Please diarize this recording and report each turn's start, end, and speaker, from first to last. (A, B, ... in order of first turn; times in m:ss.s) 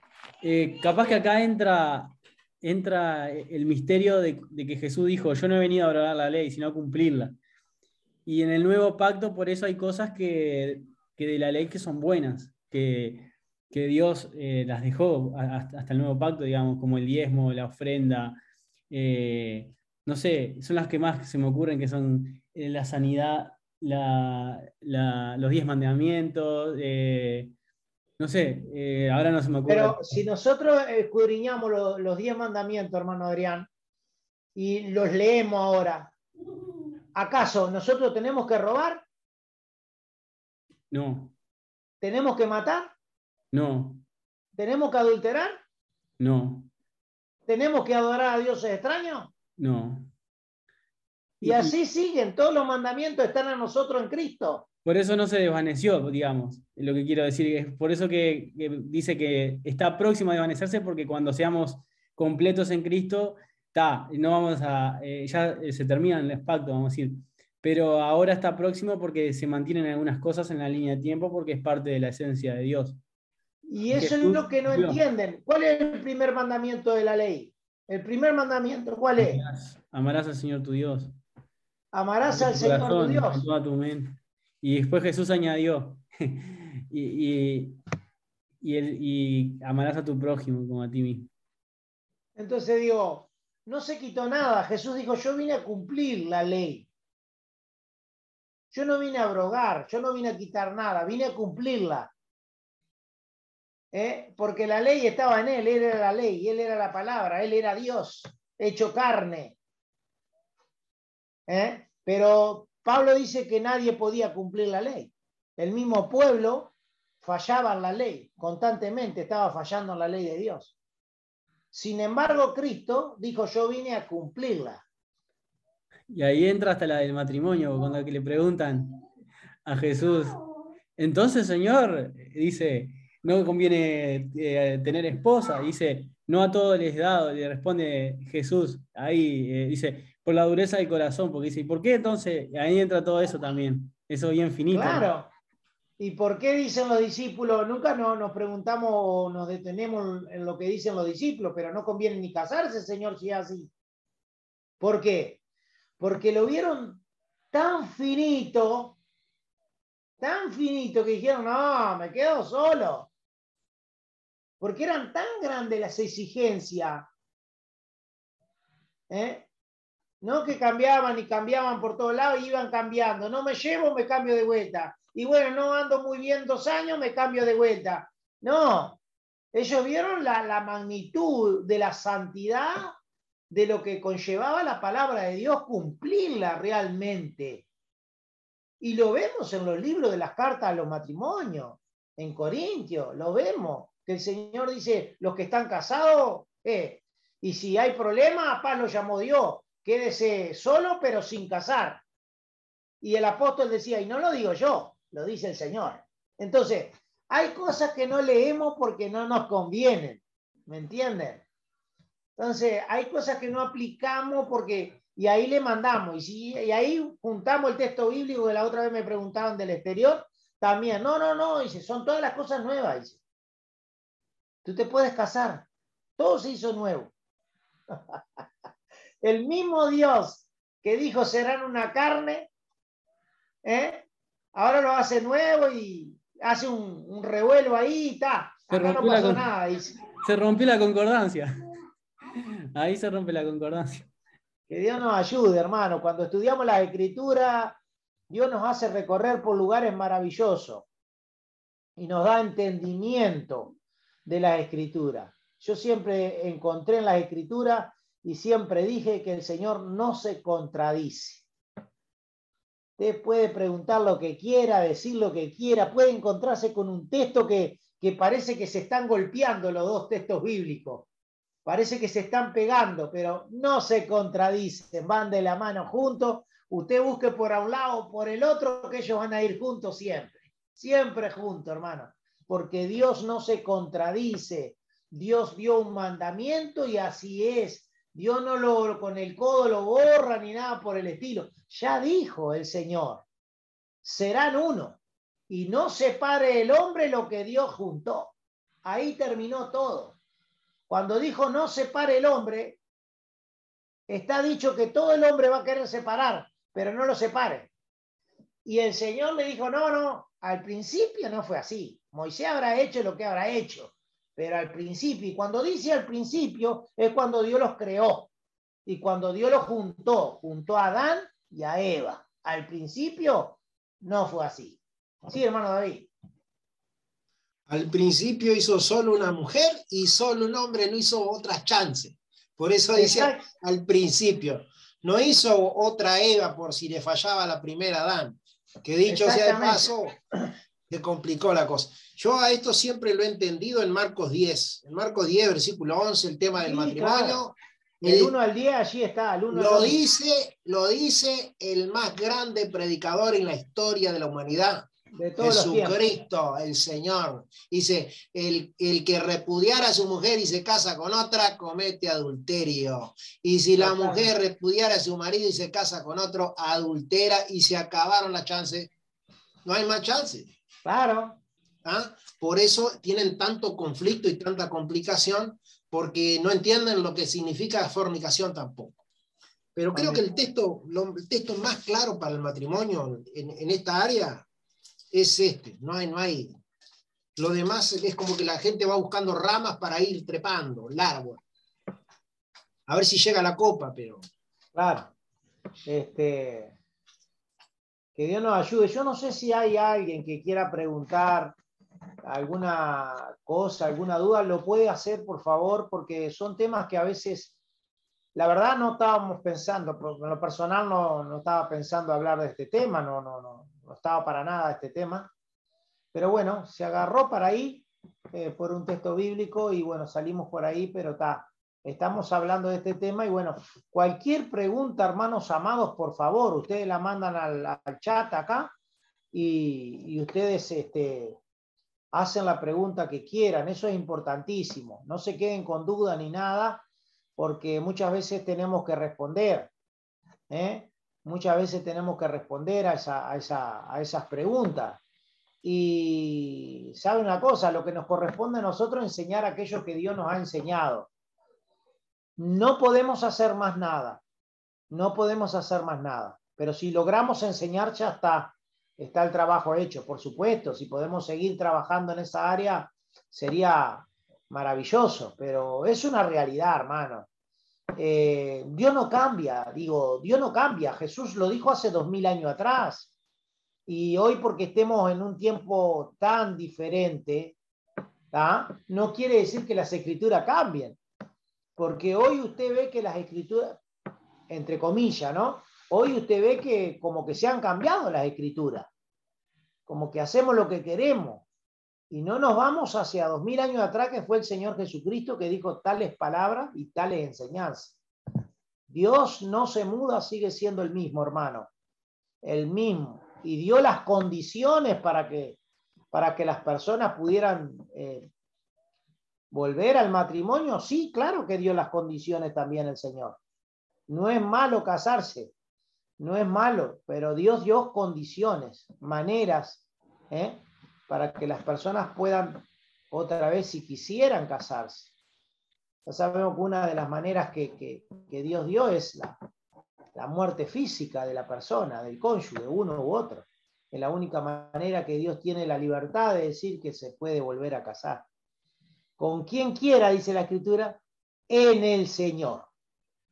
0:00.4-0:07.4 A
0:08.3-0:18.4 A
0:18.9-0:27.5 A
0:28.2-0:30.2 A
0:29.7-0:33.7 B
0:34.6-0:36.1 B
0:37.1-0:39.0 B
0:40.9-0:41.3 A
0:42.0-0:42.9 B
0:43.5-0:44.0 A
0:44.6-0:45.6 B
0:46.2-0:46.7 A
0:47.5-0:49.3 B
0:49.6-0:50.1 A
0:51.4-0:51.8 A
0:51.4-0:54.7 B
0:54.8-1:13.0 A
1:13.7-1:19.4 B
1:13.9-1:15.0 A
1:19.2-1:21.1 A
1:21.9-1:23.4 B
1:22.2-1:27.8 A
1:28.6-1:31.3 A
1:32.4-1:36.9 B
1:38.7-1:42.1 B
1:43.9-1:49.6 B
1:51.5-2:00.7 B
2:01.7-2:04.8 B
2:06.1-2:09.0 A
2:09.7-2:10.4 A
2:11.0-2:25.1 A
2:24.7-2:25.3 B
2:26.0-2:33.7 B
2:34.8-2:35.4 B
2:36.0-2:39.0 B
2:40.2-2:43.1 B
2:44.6-2:47.1 B
2:49.1-2:49.5 B
2:50.2-2:59.0 B
2:59.5-3:03.0 B
3:03.5-3:07.6 B
3:08.8-3:22.0 B
3:23.0-3:31.4 B
3:32.4-3:43.2 B
3:44.6-3:45.7 B
3:46.2-3:47.1 B
3:47.9-3:48.2 B
3:49.2-3:52.5 B
3:53.6-4:00.0 B
3:58.7-3:59.5 A
4:00.2-4:01.5 A
4:02.8-4:04.1 A
4:04.7-4:07.8 B
4:08.3-4:10.9 B
4:12.0-4:13.7 B
4:14.3-4:21.4 B
4:23.0-4:31.1 B
4:31.6-4:53.2 B
4:54.0-4:55.0 B
4:55.5-4:58.3 B
4:58.8-5:00.2 B
5:00.9-5:02.8 B
5:04.1-5:07.7 B
5:08.6-5:18.3 B
5:18.9-5:26.1 B
5:27.7-5:40.2 C
5:33.0-5:33.4 B
5:39.1-5:39.9 B
5:40.9-5:48.4 C
5:46.6-5:47.5 B
5:48.0-5:50.0 B
5:49.5-5:54.9 C
5:55.1-5:56.0 B
5:55.4-6:08.9 C
6:03.8-6:04.3 B
6:09.6-6:10.5 C
6:10.8-6:11.4 B
6:11.8-6:19.0 C
6:19.8-6:24.5 C
6:19.9-6:20.2 B
6:25.1-6:26.5 C
6:27.4-6:31.4 C
6:32.9-6:34.2 C
6:34.8-6:35.1 B
6:35.9-6:36.7 B
6:38.2-6:41.6 B
6:42.2-6:47.5 B
6:48.4-6:55.3 B
6:56.1-7:08.7 B
7:09.3-7:11.4 B
7:12.1-7:16.8 B
7:17.4-7:19.7 B
7:20.5-7:25.0 B
7:25.6-7:31.1 B
7:32.4-7:34.2 B
7:34.9-7:47.3 B
7:48.0-7:53.1 B
7:53.9-7:57.6 B
7:58.3-8:01.0 B
8:01.8-8:03.8 B
8:04.5-8:08.9 B
8:09.9-8:11.4 B
8:12.1-8:18.0 B
8:18.9-8:21.7 B
8:22.4-8:25.6 B
8:26.1-8:28.3 B
8:29.5-8:33.4 B
8:34.1-8:35.5 B
8:36.2-8:45.1 B
8:46.1-8:49.4 B
8:50.2-8:58.3 B
8:59.2-9:02.7 B